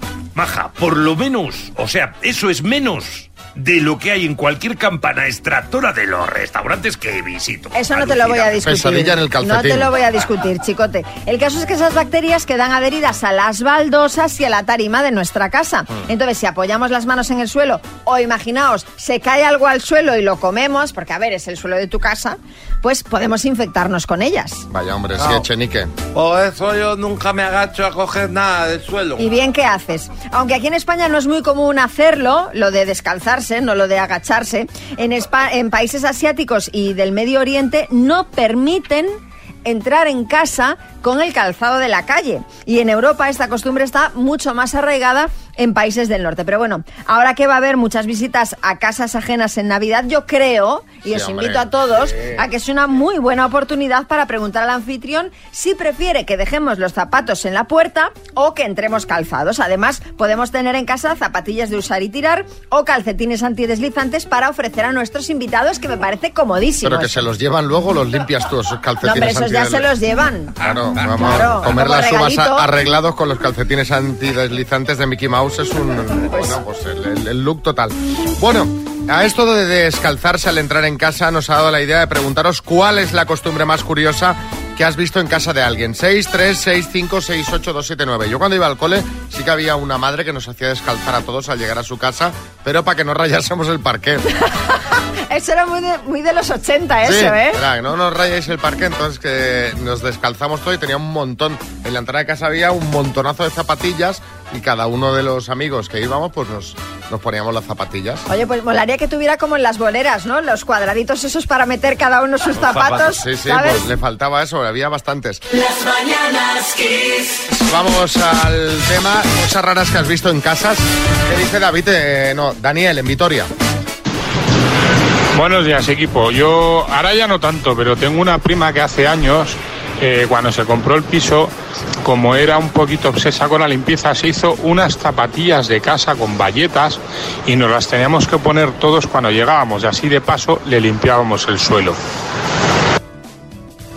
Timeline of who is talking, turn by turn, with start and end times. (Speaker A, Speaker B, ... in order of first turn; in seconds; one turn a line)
Speaker A: 0.4-7.7
Speaker B: 7.7-24.6
Speaker C: 8.6-9.9
Speaker C: 24.7-25.9
Speaker D: 25.2-25.4
Speaker D: 26.1-29.3
Speaker B: 29.2-67.1
Speaker C: 51.1-52.5
Speaker C: 66.8-69.9
Speaker B: 69.0-70.5
Speaker C: 70.6-94.2
Speaker B: 71.2-72.7
Speaker B: 76.3-76.6
Speaker B: 94.5-97.6
Speaker C: 97.0-108.2
Speaker B: 108.3-113.8
Speaker C: 113.0-115.4
Speaker C: 117.5-123.5
Speaker E: 125.3-131.5
Speaker E: 132.0-141.9